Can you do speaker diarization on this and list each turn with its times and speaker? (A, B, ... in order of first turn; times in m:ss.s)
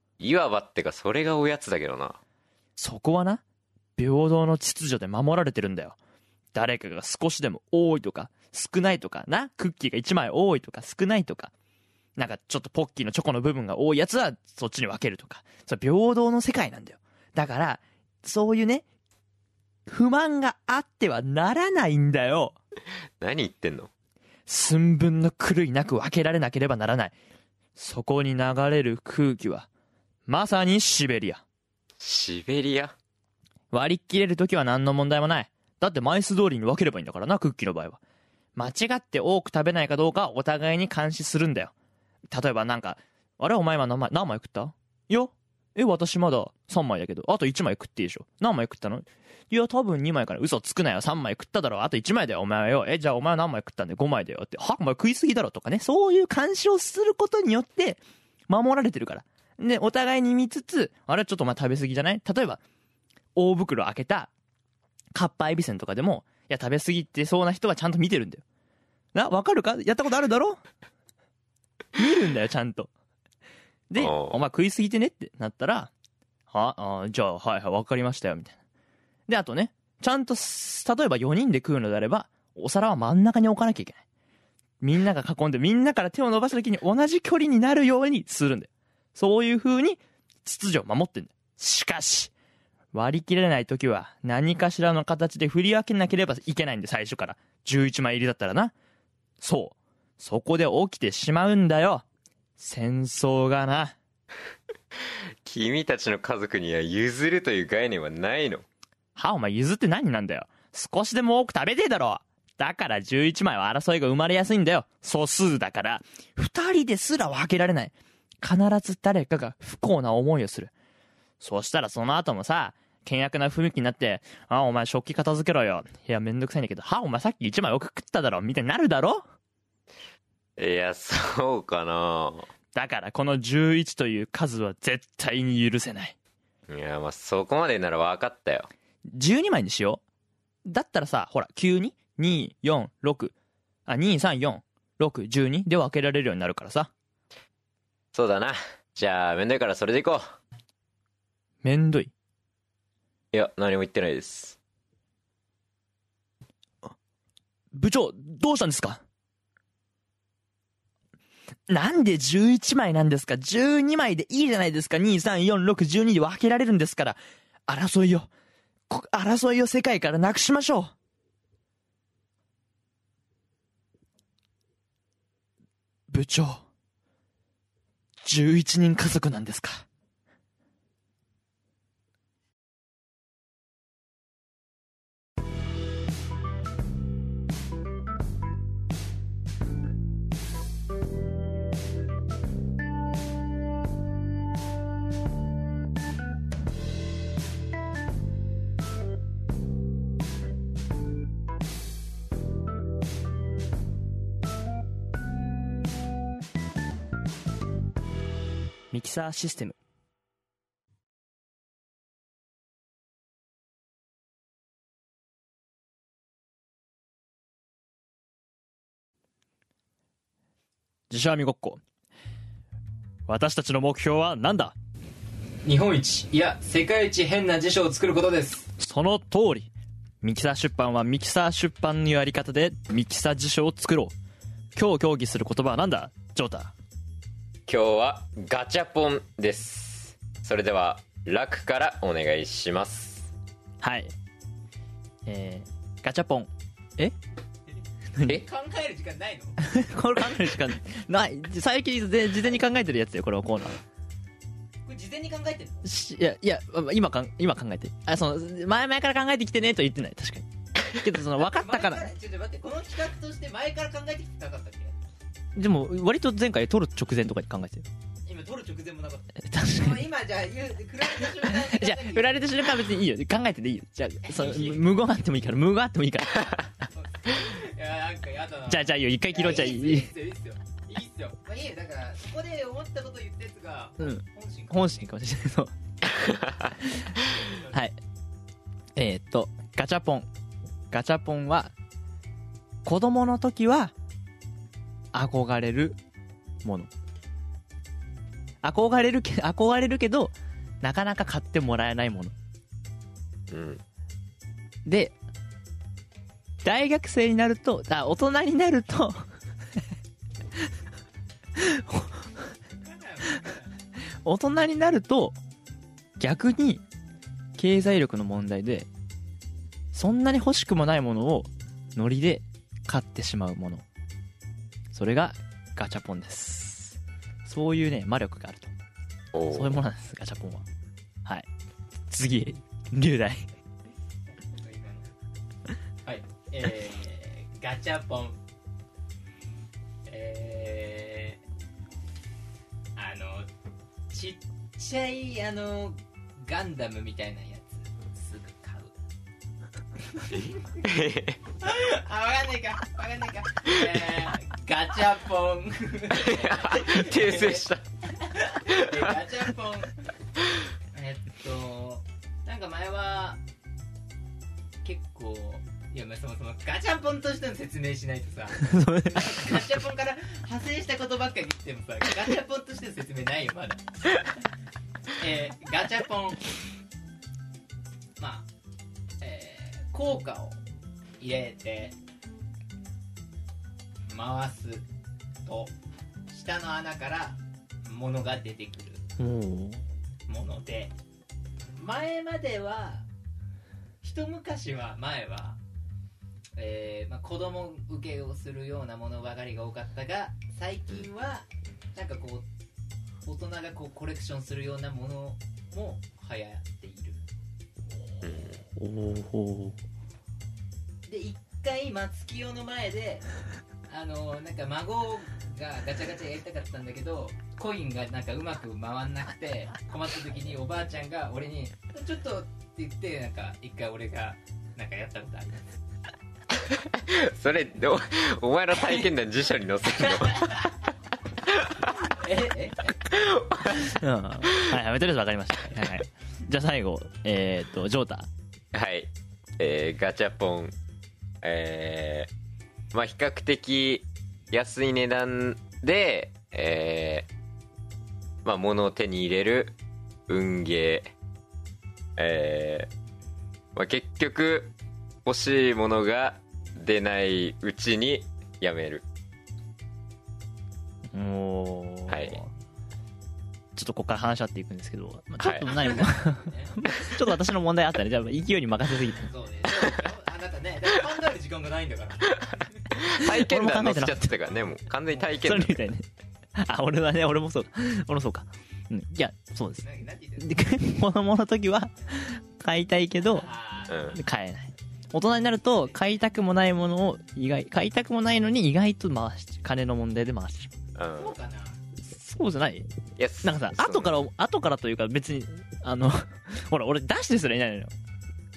0:00.2-0:02.2 A
0:02.8-0:03.4 B
0:04.0-0:06.0 B
0:06.5-0:11.5 B
0:12.2-0:18.8 B
0:19.9-0:22.6 B
0:23.2-0:23.9 A
0:24.5-0:27.2 B
0:27.8-0:29.7 B
0:30.3-0:31.4 B
0:32.0-0:33.0 A
0:33.7-0:38.0 B
0:38.6-0:41.7 B
0:42.3-1:02.6 B
1:03.4-1:04.3 B
1:05.2-1:08.4 B
1:09.1-1:10.6 B
1:12.0-1:12.9 B
1:13.9-1:15.9 B
1:14.0-1:14.4 A
1:16.5-1:18.6 B
1:19.3-1:24.0 B
1:24.8-1:32.3 B
1:32.9-1:38.7 B
1:39.4-1:42.0 B
1:42.6-1:44.0 B
1:45.4-1:48.6 A
1:49.2-2:00.7 B
2:01.4-2:09.2 B
2:10.6-2:12.5 A
2:12.8-2:16.2 B
2:16.7-2:18.7 A
2:19.1-2:20.0 B
2:20.7-2:23.3 B
2:23.9-2:26.9 B
2:28.1-2:30.2 A
2:31.6-2:32.1 B
2:33.3-2:34.6 A
2:37.7-2:39.0 B
2:41.7-2:48.3 B
2:48.9-2:50.9 B
2:56.1-2:56.6 B
2:58.2-2:59.9 B
3:28.9-3:29.8 B
3:41.1-3:41.8 B
3:43.3-3:44.8 B
3:45.6-3:48.7 C
3:48.8-3:49.7 B
3:50.2-3:54.2 B
3:54.8-3:56.7 B
3:57.7-4:03.3 A
4:03.8-4:04.1 B
4:05.3-4:07.2 B
4:08.2-4:08.4 B
4:08.3-4:09.6 C
4:09.6-4:13.8 B
4:14.8-4:15.8 C
4:15.8-4:22.1 B
4:21.3-4:25.0 C
4:25.6-4:27.8 B
4:28.3-4:32.8 C
4:29.4-4:30.0 B
4:31.2-4:36.9 B
4:34.2-4:34.9 C
4:37.0-4:45.0 C
4:38.7-4:40.1 B
4:44.0-4:45.7 B
4:46.1-4:46.7 A
4:46.8-4:47.1 B
4:47.1-4:47.9 C
4:47.7-4:48.0 B
4:49.0-4:50.3 B
4:50.9-4:51.7 B
4:52.8-4:53.9 B
4:55.1-4:56.0 B
4:56.6-4:56.9 B
4:58.6-5:02.4 B
5:03.5-5:03.8 A
5:04.9-5:05.2 B
5:06.6-5:09.3 B
5:11.6-5:12.2 B
5:12.7-5:13.8 C
5:14.2-5:15.4 B
5:16.2-5:16.8 B
5:17.6-5:18.9 B
5:19.9-5:23.8 B
5:24.9-5:28.7 B
5:29.3-5:29.8 A
5:29.5-5:30.7 B
5:32.1-5:33.5 B
5:34.5-5:35.1 C
5:36.0-5:38.4 C
5:40.1-5:41.4 C
5:43.0-5:43.5 C
5:44.1-5:49.0 C
5:50.3-5:51.4 A
5:51.6-6:00.0 C
5:56.1-5:57.8 A
5:58.8-5:59.1 A
6:00.9-6:03.4 C
6:04.8-6:14.3 C
6:08.6-6:09.6 B
6:15.2-6:16.5 C
6:18.2-6:18.5 C
6:19.2-6:20.6 C
6:21.2-6:22.0 C
6:24.1-6:24.9 C
6:25.5-6:25.7 C
6:26.3-6:29.0 C
6:29.2-6:29.8 B
6:30.3-6:31.0 C
6:31.8-6:33.1 C
6:34.0-6:35.6 C
6:36.6-6:42.5 C
6:43.2-6:47.2 C
6:48.2-6:48.6 A
6:48.8-6:49.8 B
6:51.1-6:53.3 C
6:53.9-7:05.6 C
7:06.7-7:10.6 A
7:10.0-7:10.7 C
7:11.5-7:11.8 A
7:12.1-7:13.2 C
7:13.1-7:14.0 A
7:13.8-7:18.3 B
7:18.7-7:20.7 A
7:21.4-7:22.3 A
7:22.9-7:27.3 A
7:28.4-7:29.8 A
7:30.3-7:31.1 A
7:32.2-7:32.9 A
7:33.8-7:34.7 A
7:35.2-7:39.0 A
7:41.1-7:42.5 B
7:42.1-7:42.4 A
7:43.8-7:49.3 B
7:45.4-7:45.7 A
7:45.6-7:46.8 C
7:49.3-7:52.9 C
7:52.9-7:55.9 A
7:53.2-7:54.3 B
7:55.4-7:59.8 B
7:59.8-8:00.7 C
8:00.4-8:03.5 B
8:03.2-8:04.2 C
8:03.9-8:04.2 A
8:04.1-8:10.7 B
8:05.7-8:06.0 C
8:11.0-8:11.4 A
8:11.2-8:11.8 C
8:12.1-8:12.9 B
8:13.2-8:14.1 A
8:13.4-8:17.9 B